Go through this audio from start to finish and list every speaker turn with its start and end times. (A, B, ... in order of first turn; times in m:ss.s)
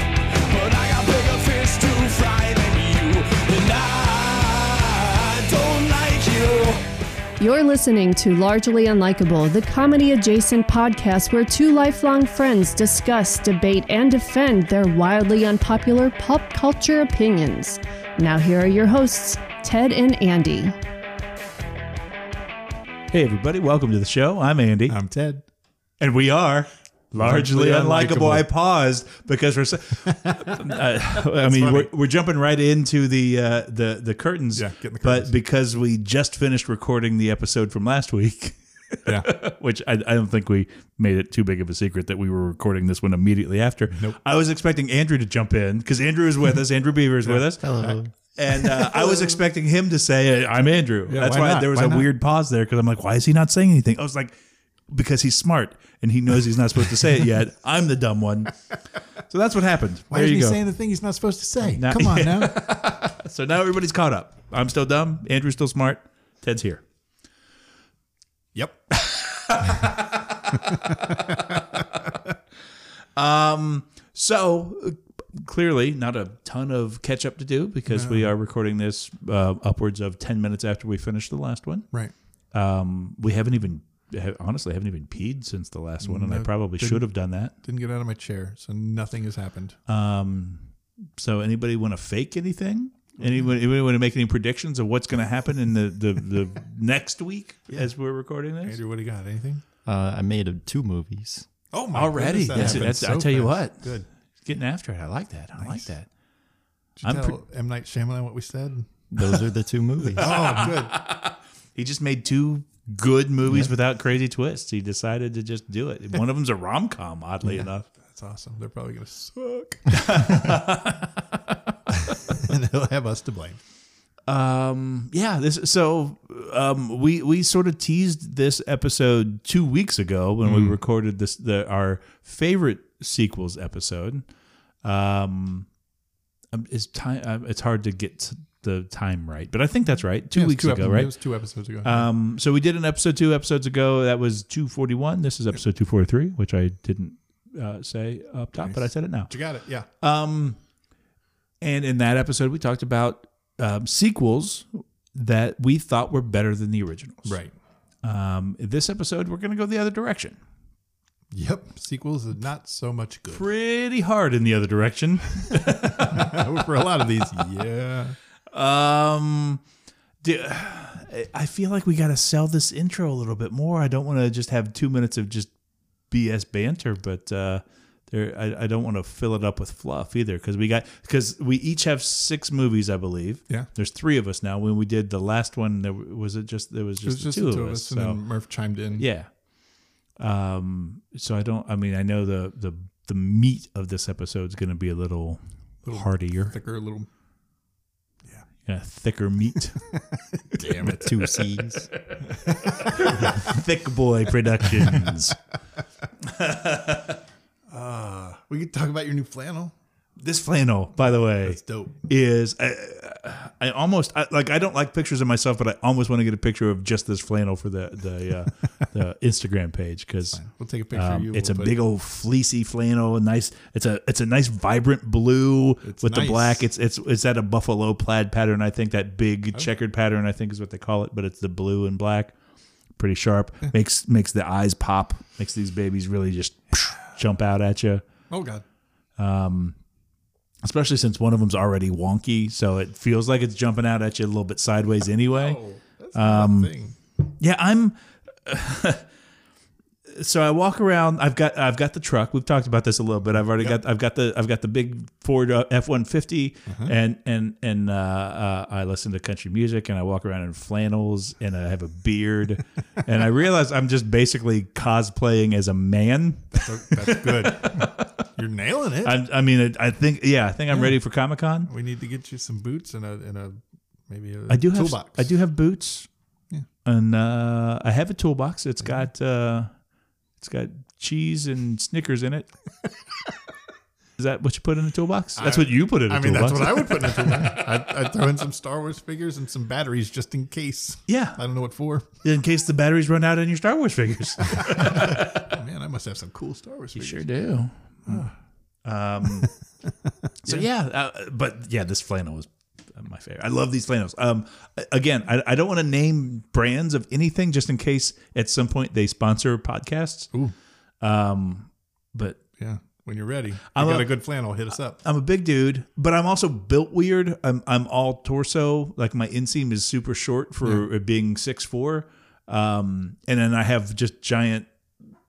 0:00.4-0:06.8 A
0:07.4-0:20.7 B
0:23.1-0:25.0 C
0:24.9-0:25.4 D
0:26.0-0:47.6 C
0:27.1-0:28.5 D
0:30.1-0:31.9 D
0:34.5-0:35.3 D
0:39.0-0:39.3 D
0:47.3-0:48.0 D
0:47.6-0:48.1 E
0:48.3-0:54.4 C
0:48.6-0:49.2 D
0:51.1-0:52.1 D
0:54.9-0:58.5 C
0:59.3-1:00.6 C
1:00.1-1:02.6 D
1:01.7-1:06.8 C
1:08.5-1:09.6 D
1:09.0-1:11.2 C
1:10.5-1:12.1 D
1:13.1-1:21.8 C
1:17.9-1:18.3 D
1:22.5-1:27.5 C
1:26.0-1:27.1 D
1:27.6-1:29.8 D
1:29.9-1:38.8 C
1:38.6-1:39.6 D
1:39.8-1:41.5 E
1:41.7-1:44.0 D
1:41.9-1:46.1 C
1:42.5-1:42.9 E
1:45.6-1:45.9 D
1:47.0-1:48.8 D
1:47.0-1:47.4 C
1:49.1-1:50.3 E
1:50.1-1:51.0 D
1:50.2-1:57.8 C
1:57.4-2:00.6 D
1:59.9-2:01.2 C
2:01.9-2:03.6 D
2:04.2-2:14.2 C
2:10.4-2:10.7 D
2:14.8-2:15.7 C
2:16.5-2:21.1 C
2:20.3-2:22.1 D
2:21.8-2:29.3 C
2:28.6-2:29.9 D
2:30.0-2:30.6 C
2:31.6-2:37.4 C
2:37.2-2:37.5 D
2:38.0-2:40.4 C
2:41.3-2:43.5 D
2:43.3-2:46.4 C
2:45.8-2:48.2 D
2:48.5-2:49.6 C
2:50.2-2:55.5 C
2:56.1-3:08.2 C
3:07.0-3:09.1 D
3:09.0-3:09.3 C
3:10.2-3:16.6 C
3:15.8-3:17.1 D
3:18.6-3:19.8 C
3:19.9-3:21.4 D
3:20.8-3:21.9 E
3:22.3-3:23.6 D
3:22.5-3:25.4 C
3:26.2-3:27.2 C
3:27.7-3:29.7 D
3:30.2-3:40.4 C
3:31.4-3:32.0 D
3:40.3-3:41.8 D
3:40.9-3:52.3 C
3:45.8-3:46.7 D
3:53.0-3:58.0 C
3:58.3-3:58.6 D
3:59.2-3:59.8 C
4:00.6-4:05.6 C
4:05.3-4:07.0 D
4:06.1-4:06.7 C
4:07.2-4:09.0 C
4:10.1-4:28.1 C
4:16.6-4:16.9 D
4:26.5-4:29.2 D
4:29.0-4:31.7 C
4:31.6-4:35.3 D
4:34.5-4:36.1 C
4:36.8-4:39.7 C
4:40.4-4:42.5 C
4:44.2-4:47.8 C
4:45.4-4:52.1 D
4:51.1-4:51.4 C
4:52.2-4:55.6 C
4:54.5-4:57.3 D
4:56.9-4:58.2 C
4:58.0-4:58.3 D
4:58.8-4:59.5 C
5:00.4-5:10.3 C
5:11.0-5:12.4 C
5:12.6-5:15.0 D
5:13.7-5:14.1 C
5:15.0-5:24.7 C